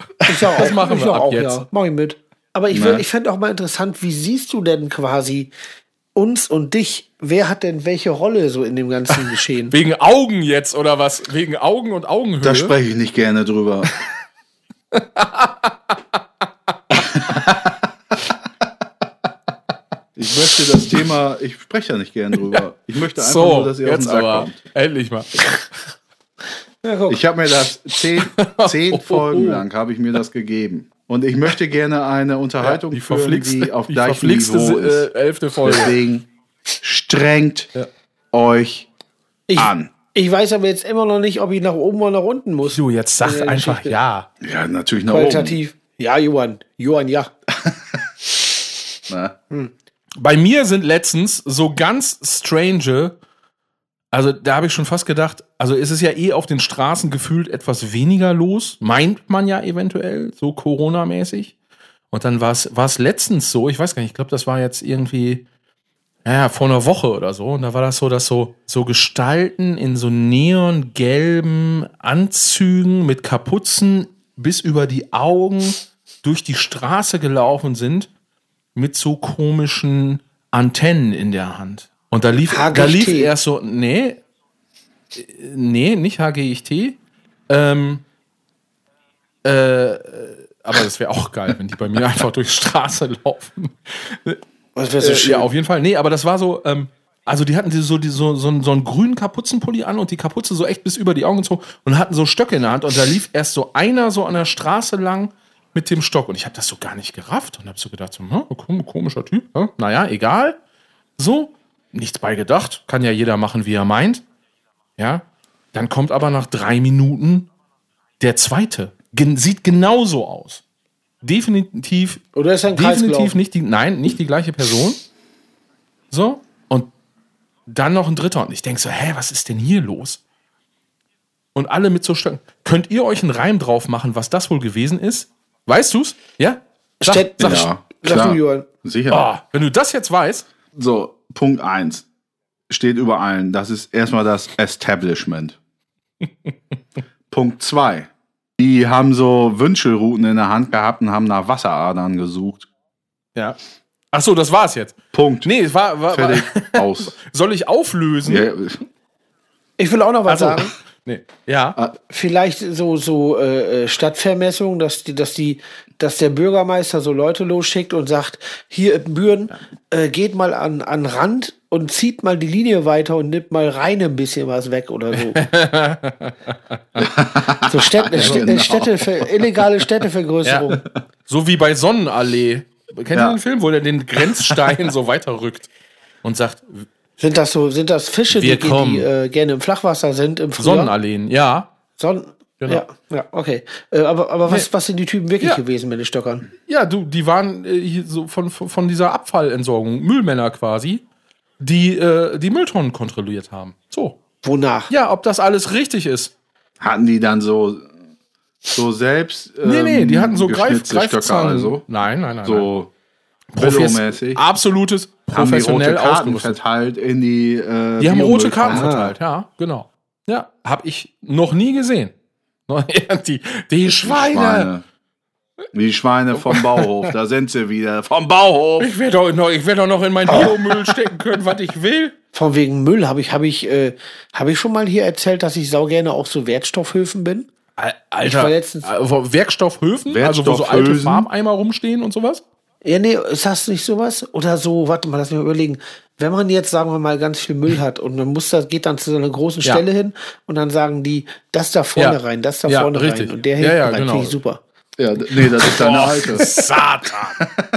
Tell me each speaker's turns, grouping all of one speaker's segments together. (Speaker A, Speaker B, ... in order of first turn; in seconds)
Speaker A: 0.3-5.5, 6.2-9.8, 26.8-27.2, 39.5-44.0, 45.1-47.3, 82.5-83.3, 94.8-95.5, 122.3-123.4, 137.0-138.7, 159.8-160.7, 162.1-175.4, 177.7-180.8, 187.2-190.9, 192.0-196.5, 204.4-204.9, 218.7-219.1, 230.3-230.6, 232.3-237.5, 238.2-238.9, 242.8-254.6
Speaker B: 0.4-1.6, 9.7-12.8, 14.9-15.7, 23.2-25.6, 28.2-29.6, 32.6-36.0, 42.7-44.3, 50.2-53.1, 54.1-61.5, 62.1-65.4, 66.2-78.1, 78.8-84.2, 85.2-87.0, 87.5-88.0, 89.4-94.4, 95.0-110.6, 111.2-114.2, 115.0-117.5, 118.2-120.6, 121.2-122.2, 122.7-125.0, 126.1-126.9, 127.7-130.2, 131.6-137.7, 139.1-140.5, 154.1-158.5, 160.3-161.8, 175.3-177.1, 178.2-178.4, 180.4-180.7, 181.3-185.7, 186.2-186.9, 188.3-189.1, 190.6-191.7, 196.7-201.0, 201.6-204.2, 204.9-206.3, 209.6-212.7, 213.5-216.6, 218.0-222.1, 222.7-224.7, 226.4-227.1, 228.8-232.1, 237.8-242.4, 252.0-254.4, 255.3-257.5
Speaker C: 2.7-3.0, 12.4-13.9, 17.1-17.6, 20.2-24.6, 27.1-35.1, 35.6-36.3, 36.8-37.7, 38.3-38.9, 39.6-39.9, 44.4-45.6, 47.5-48.0, 49.1-49.3, 137.4-139.3, 140.7-142.1, 142.7-145.6, 147.3-152.7, 155.1-155.5, 156.1-157.1, 158.3-158.8, 177.0-179.2, 183.1-183.4, 206.8-207.9, 208.7-211.8, 212.4-212.9, 213.6-214.4, 215.3-219.1, 224.0-224.8, 225.7-228.9, 240.1-241.3, 255.0-256.5